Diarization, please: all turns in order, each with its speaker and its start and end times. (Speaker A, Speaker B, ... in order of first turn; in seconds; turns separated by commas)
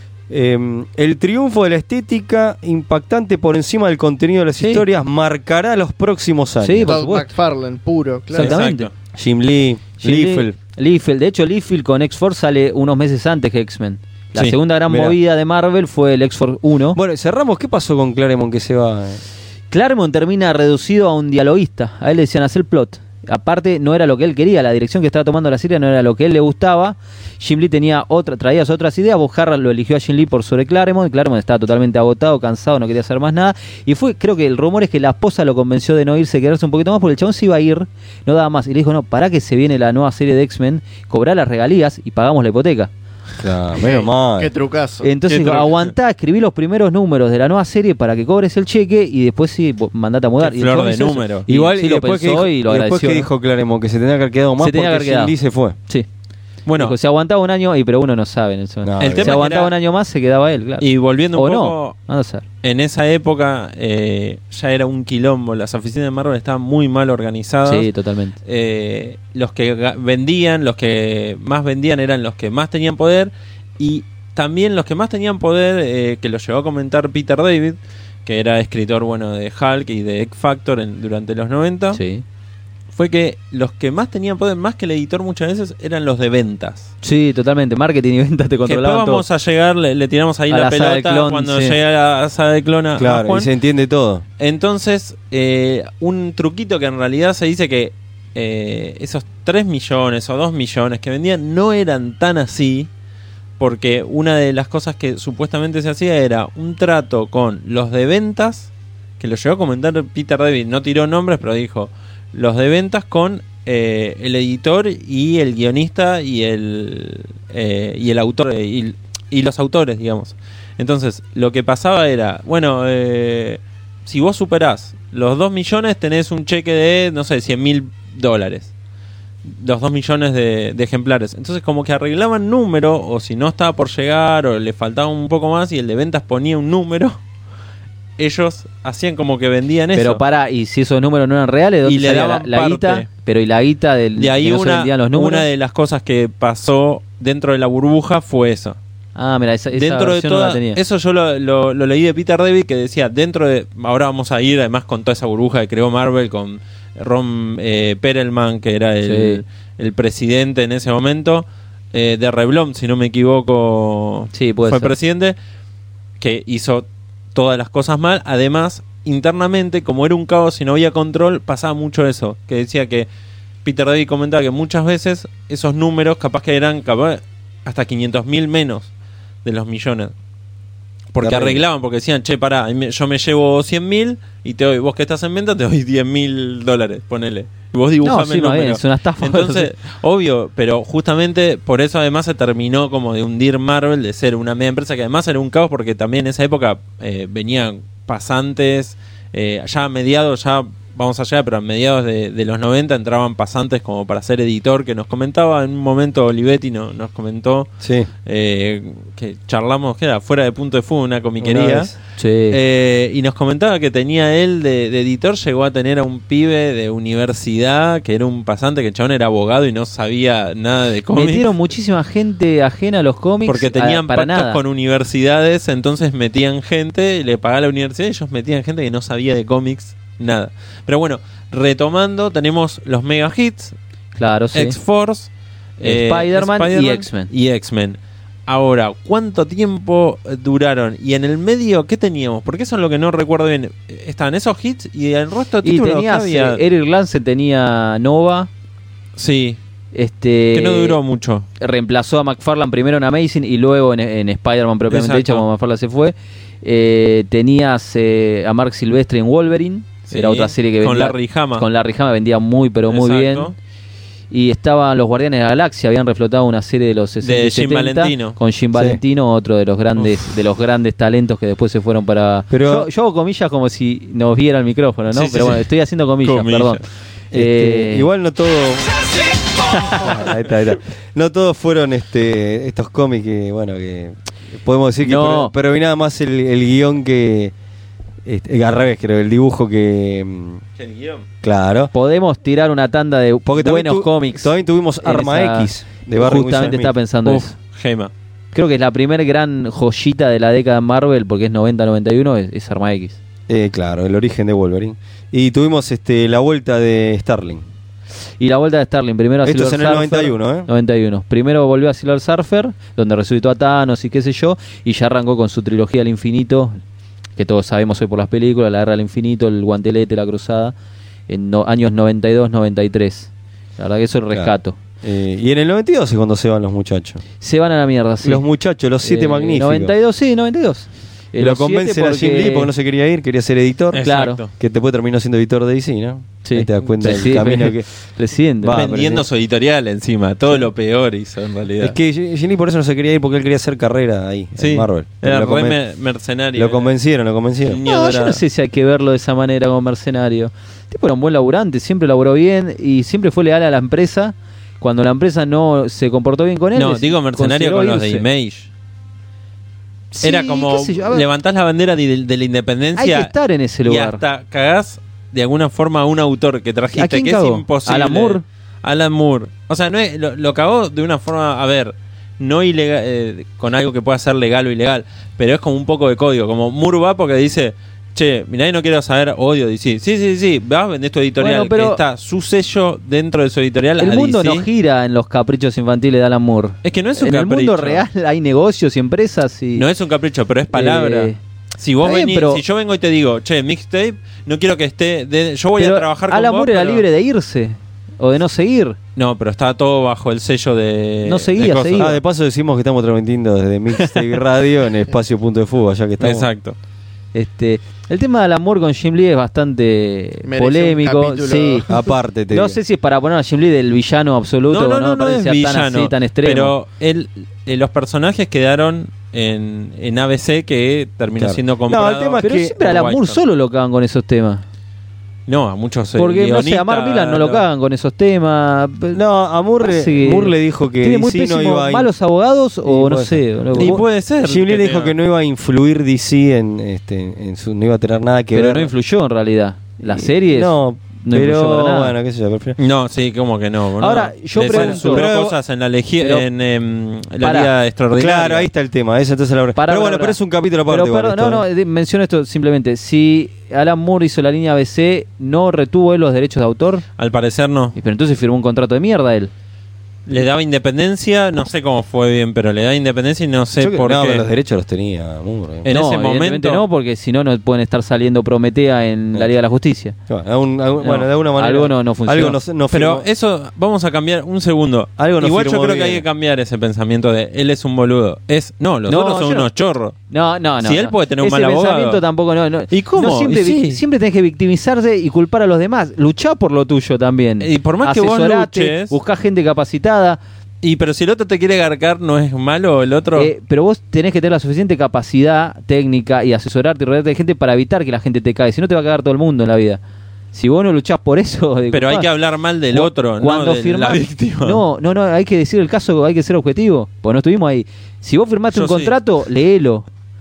Speaker A: 0.3-7.0, Speaker B: 4.6-4.8, Speaker B: 6.6-7.3, Speaker C: 6.8-8.6, Speaker B: 8.3-8.9, Speaker D: 8.3-8.9, Speaker A: 9.1-10.6, Speaker B: 10.0-17.0, Speaker A: 14.9-15.2, Speaker A: 16.9-19.2, Speaker B: 19.7-42.9, Speaker A: 43.4-44.5, Speaker C: 43.8-45.1, Speaker B: 45.0-53.3, Speaker D: 45.3-45.9, Speaker D: 50.4-51.5, Speaker A: 51.5-55.8, Speaker B: 54.6-55.4, Speaker D: 56.7-57.0, Speaker B: 56.8-62.4, Speaker A: 58.8-59.4, Speaker D: 59.0-59.7, Speaker D: 60.8-62.0, Speaker D: 62.6-67.9, Speaker B: 67.7-68.4, Speaker D: 68.5-82.0, Speaker B: 81.9-82.2, Speaker D: 82.9-86.9, Speaker B: 87.0-89.2, Speaker D: 88.7-93.5, Speaker B: 90.5-91.8, Speaker A: 93.0-94.2, Speaker D: 94.4-102.9, Speaker D: 103.6-128.7, Speaker D: 129.4-137.2, Speaker D: 138.2-140.2, Speaker B: 139.9-145.5, Speaker D: 141.8-143.1, Speaker D: 144.2-148.8, Speaker B: 149.2-150.8, Speaker D: 149.7-165.4, Speaker B: 159.0-159.4, Speaker B: 164.3-164.9, Speaker D: 166.2-173.1, Speaker D: 173.6-178.9, Speaker D: 179.4-180.1, Speaker D: 181.1-207.7, Speaker A: 181.2-181.6, Speaker B: 188.0-189.7, Speaker A: 207.8-208.1, Speaker D: 208.2-211.9, Speaker A: 211.4-211.9, Speaker B: 212.2-212.6, Speaker D: 212.5-221.5, Speaker B: 221.1-224.6, Speaker D: 223.5-233.8, Speaker B: 234.2-234.8, Speaker D: 234.5-246.6, Speaker B: 235.8-237.3, Speaker B: 245.6-248.5, Speaker D: 249.2-249.6, Speaker B: 249.9-251.0, Speaker D: 250.5-251.5, Speaker B: 251.6-263.5, Speaker D: 254.9-255.4, Speaker D: 260.1-261.7, Speaker D: 262.9-263.6, Speaker B: 264.3-276.8, Speaker D: 267.2-268.4, Speaker A: 268.8-269.0, Speaker A: 272.5-272.9, Speaker D: 275.1-275.7, Speaker D: 276.2-276.8, Speaker B: 277.3-278.1, Speaker A: 277.3-279.1, Speaker B: 279.7-280.1, Speaker A: 279.9-287.5, Speaker B: 285.0-285.5, Speaker A: 288.2-290.6, Speaker D: 290.8-291.2, Speaker A: 291.4-291.9, Speaker B: 291.9-297.5, Speaker A: 293.5-297.0, Speaker D: 297.2-298.1, Speaker B: 298.5-303.2, Speaker A: 303.5-307.6, Speaker B: 308.4-316.8, Speaker A: 309.4-310.7, Speaker B: 317.4-320.7, Speaker B: 321.3-324.8, Speaker A: 324.3-327.2, Speaker B: 327.4-328.4, Speaker A: 328.2-329.9, Speaker B: 329.0-332.7, Speaker A: 331.4-337.9, Speaker D: 333.9-334.5, Speaker B: 334.0-334.4, Speaker B: 336.4-338.8, Speaker A: 338.6-339.2, Speaker D: 338.7-342.0, Speaker A: 341.8-345.8, Speaker D: 344.6-346.9, Speaker A: 346.6-347.8, Speaker D: 347.7-348.4, Speaker B: 347.8-358.2, Speaker D: 356.8-358.7, Speaker B: 360.1-361.3, Speaker D: 360.2-363.3, Speaker B: 362.9-364.2, Speaker D: 363.8-384.7, Speaker B: 366.9-368.4, Speaker B: 381.4-382.0, Speaker B: 384.0-389.9, Speaker D: 386.8-388.1, Speaker D: 389.8-397.1, Speaker B: 390.7-391.4, Speaker B: 392.0-392.6, Speaker B: 395.8-399.0, Speaker D: 399.2-402.1, Speaker B: 401.2-402.2, Speaker A: 401.9-406.5, Speaker D: 406.2-406.8, Speaker B: 407.3-411.9, Speaker C: 410.4-412.1, Speaker A: 411.9-412.8, Speaker B: 412.5-416.7, Speaker D: 414.7-423.4, Speaker A: 421.4-422.8, Speaker B: 422.4-424.6, Speaker D: 425.5-427.6, Speaker B: 426.2-429.2, Speaker A: 429.1-432.1, Speaker B: 429.8-434.0, Speaker A: 432.8-438.9, Speaker D: 433.8-435.1, Speaker B: 438.5-442.1, Speaker A: 440.0-442.8, Speaker D: 442.8-448.7, Speaker B: 444.0-445.3, Speaker A: 444.7-445.6, Speaker B: 446.2-446.5, Speaker B: 447.4-447.7, Speaker A: 448.1-451.6, Speaker B: 449.8-457.0, Speaker D: 457.2-458.0, Speaker B: 458.0-459.5, Speaker D: 460.3-464.4, Speaker A: 463.8-465.9, Speaker D: 465.9-466.8, Speaker B: 465.9-470.2, Speaker A: 470.3-473.3, Speaker B: 471.0-472.6, Speaker D: 472.9-480.2, Speaker A: 475.2-476.3, Speaker B: 479.1-479.7, Speaker B: 480.3-490.4, Speaker D: 480.8-482.2, Speaker D: 482.9-484.0, Speaker D: 487.6-489.2, Speaker D: 490.8-493.5, Speaker B: 493.4-500.0, Speaker B: 500.5-502.3, Speaker D: 501.9-504.8, Speaker B: 502.9-510.1, Speaker D: 508.7-509.1